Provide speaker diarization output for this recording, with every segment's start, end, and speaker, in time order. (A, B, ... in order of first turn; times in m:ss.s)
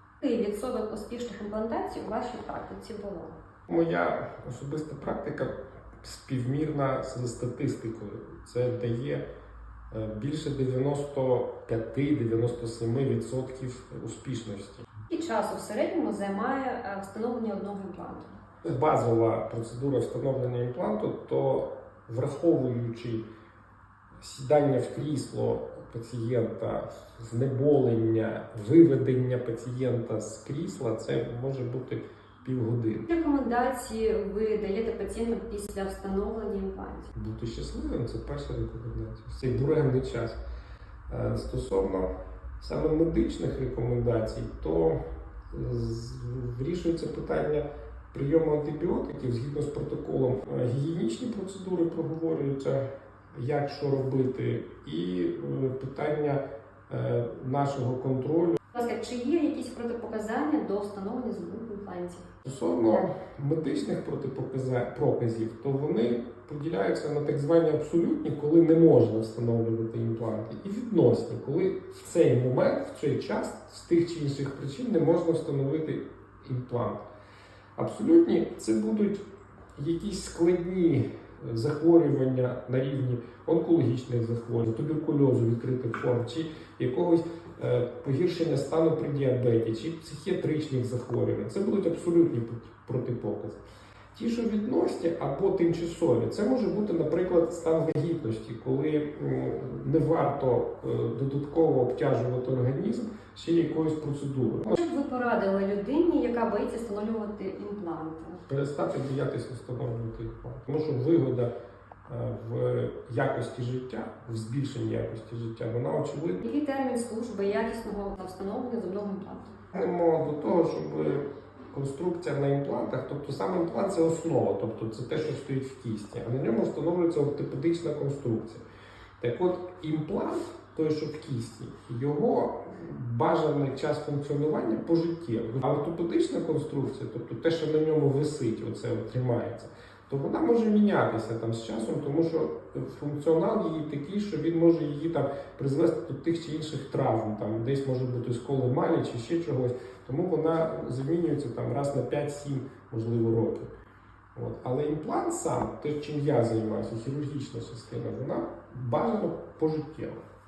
0:00.2-0:03.4 A
0:03.7-0:09.2 B
0:09.9-0:14.9 B
0:15.1-0:18.3 A
0:18.6-0:23.2 B
0:24.2-0:33.1 B
0:33.1-0:37.1 A
0:37.1-0:40.4 B
0:41.1-0:42.1 B
0:42.6-0:45.0 B
0:45.5-0:52.8 B
0:53.3-0:58.6 B
0:58.7-1:02.2 A
1:02.4-1:17.0 B
1:17.8-1:19.2 B
1:19.8-1:33.6 B
1:34.1-1:44.8 B
1:44.7-1:48.4 A
1:48.5-1:51.5 B
1:52.1-1:56.4 B
1:56.4-1:59.5 A
1:59.7-2:08.6 B
2:09.2-2:33.7 B
2:34.3-2:40.2 B